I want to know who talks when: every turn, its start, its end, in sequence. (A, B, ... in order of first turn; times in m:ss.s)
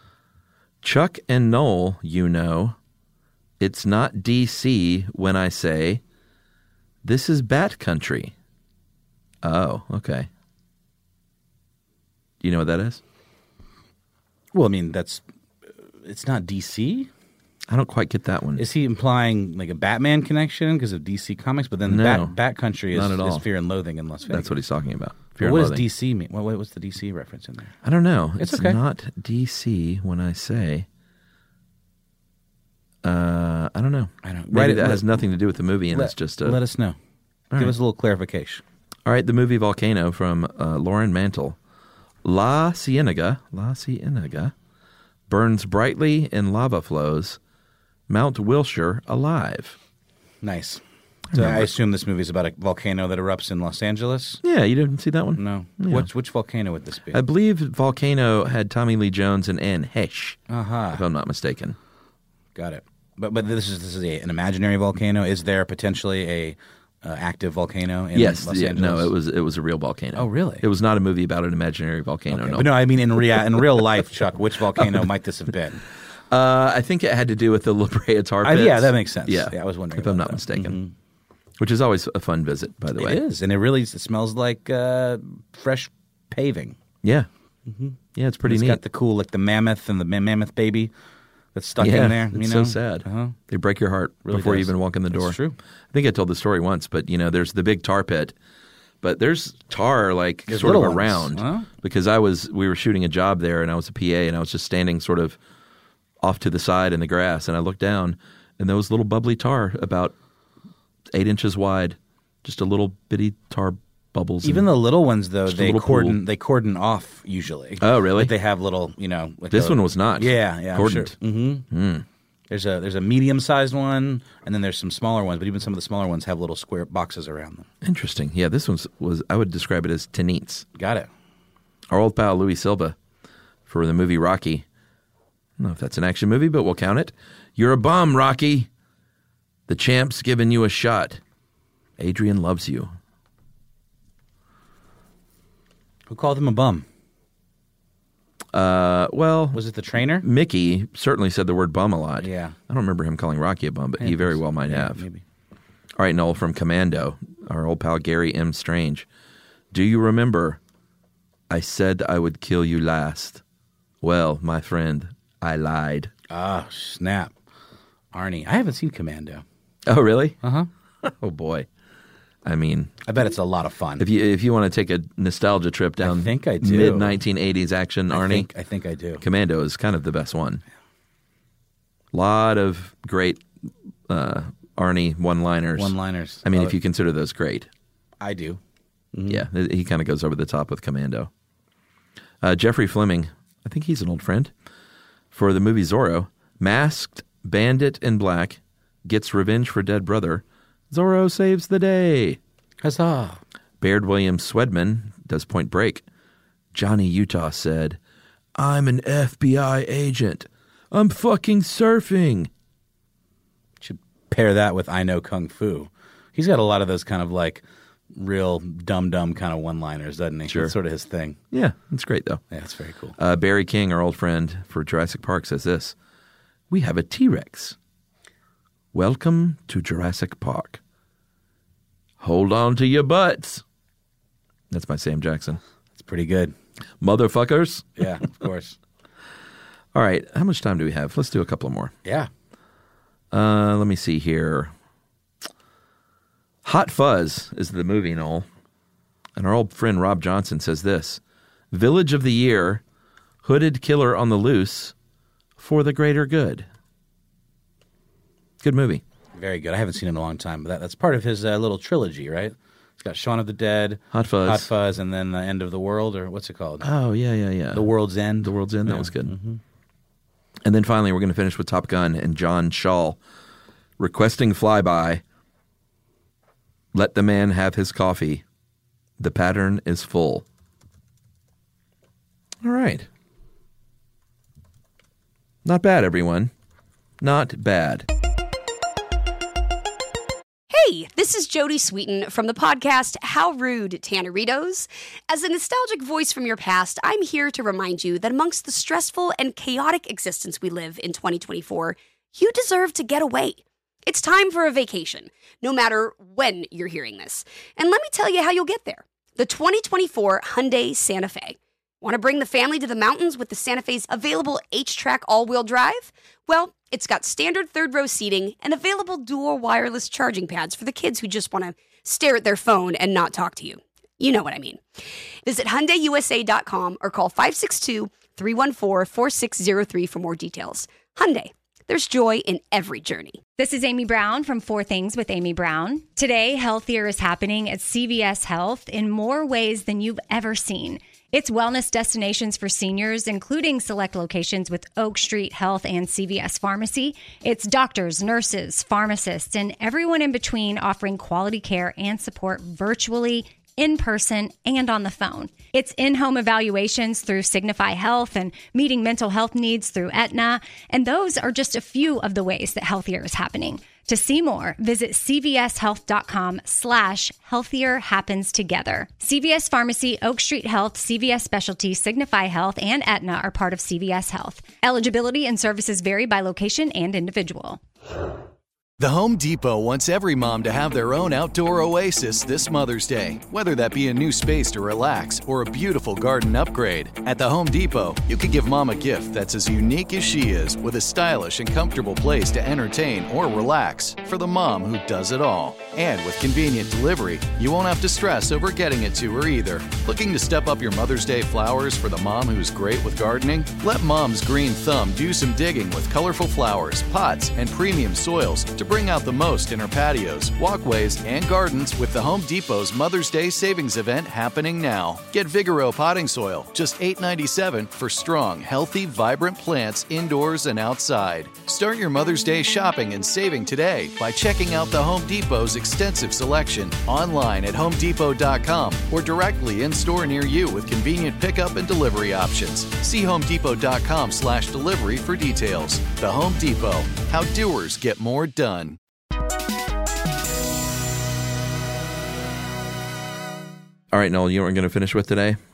0:00.8-0:02.8 A
0:03.6-0:06.0 A
0:07.0-0:08.3 A
0:09.4-0:10.3 A
0:12.4-0:13.0 A
0:14.5-0:15.2 B
0:16.0-0:17.1 B
0:17.7-0:18.6 A
0:18.6-0:24.5 B
0:21.9-0:22.3 A
0:22.9-0:23.4 A
0:24.3-0:25.8 A
0:25.4-0:27.8 B
0:27.8-0:30.8 A
0:28.4-0:28.8 B
0:33.0-0:36.6 A
0:34.2-0:35.2 B
0:35.9-0:37.0 B
0:37.6-0:38.6 B
0:39.0-0:41.6 A
0:42.2-0:44.5 A
0:45.3-0:47.4 A
0:48.1-0:49.8 A
0:50.4-0:54.4 B
0:51.3-0:51.7 A
0:54.4-0:56.1 A
0:55.4-0:57.2 B
0:57.1-1:00.4 A
1:00.5-1:01.0 B
1:00.9-1:01.8 A
1:02.5-1:09.1 B
1:08.1-1:12.7 A
1:10.1-1:10.6 B
1:12.3-1:15.8 B
1:16.3-1:20.8 A
1:18.4-1:20.9 B
1:21.6-1:23.2 A
1:23.0-1:26.8 B
1:27.0-1:27.3 A
1:27.7-1:30.9 B
1:28.2-1:28.8 A
1:31.5-1:33.4 B
1:31.8-1:35.4 A
1:34.3-1:35.6 B
1:35.9-1:38.3 A
1:39.0-1:45.4 A
1:40.5-1:41.7 B
1:46.2-1:50.1 A
1:51.1-1:54.7 A
1:54.4-2:01.7 B
1:55.5-1:56.2 A
1:57.8-1:58.3 A
1:59.5-2:01.1 A
2:01.7-2:02.0 A
2:02.5-2:07.7 B
2:07.8-2:10.6 A
2:10.7-2:11.1 B
2:11.9-2:13.0 A
2:13.7-2:14.6 A
2:15.6-2:18.7 A
2:19.7-2:21.2 A
2:22.0-2:22.9 A
2:26.1-2:26.8 B
2:28.5-2:29.6 A
2:29.5-2:30.3 B
2:30.2-2:35.0 A
2:32.2-2:32.6 B
2:34.0-2:35.2 B
2:36.0-2:39.0 A
2:39.7-2:40.6 A
2:41.5-2:43.4 A
2:44.0-2:46.1 A
2:46.3-2:47.3 B
2:48.1-2:49.4 B
2:49.8-2:50.4 A
2:50.4-2:50.7 B
2:51.0-2:51.7 A
2:52.4-2:53.0 A
2:53.0-2:54.1 B
2:54.0-2:58.5 A
2:56.0-2:57.2 B
2:58.1-2:59.2 B
2:59.2-3:00.6 A
3:02.1-3:03.4 A
3:04.1-3:07.7 A
3:05.8-3:06.7 B
3:08.2-3:08.6 B
3:09.1-3:09.4 B
3:09.3-3:11.3 A
3:12.4-3:14.5 A
3:15.3-3:22.4 A
3:22.8-3:23.4 B
3:23.8-3:26.0 A
3:26.7-3:28.0 A
3:28.6-3:32.5 A
3:33.8-3:41.4 B
3:40.5-3:40.7 A
3:41.5-3:42.4 A
3:42.5-3:43.2 B
3:43.2-3:45.9 A
3:46.7-3:47.8 A
3:48.9-3:50.8 A
3:52.2-3:53.6 A
3:54.7-3:55.6 A
3:55.9-3:56.5 B
3:57.0-3:58.1 A
3:58.0-3:58.8 B
3:59.9-4:01.9 A
4:02.0-4:02.3 B
4:03.3-4:04.7 A
4:06.6-4:08.4 A
4:09.4-4:11.2 A
4:11.7-4:12.8 A
4:13.4-4:14.9 A
4:15.6-4:16.6 A
4:18.6-4:19.0 A
4:19.3-4:26.9 B
4:24.1-4:24.7 A
4:26.8-4:29.3 A
4:27.7-4:29.6 B
4:30.6-4:33.2 A
4:34.0-4:35.2 A
4:36.9-4:38.4 A
4:39.2-4:40.4 A
4:42.6-4:43.1 A
4:45.6-4:46.5 A
4:47.2-4:48.0 A
4:50.7-5:24.8 C
5:25.4-5:33.4 C
5:33.6-6:17.8 D
6:19.0-7:19.0 E
7:24.1-7:25.6 A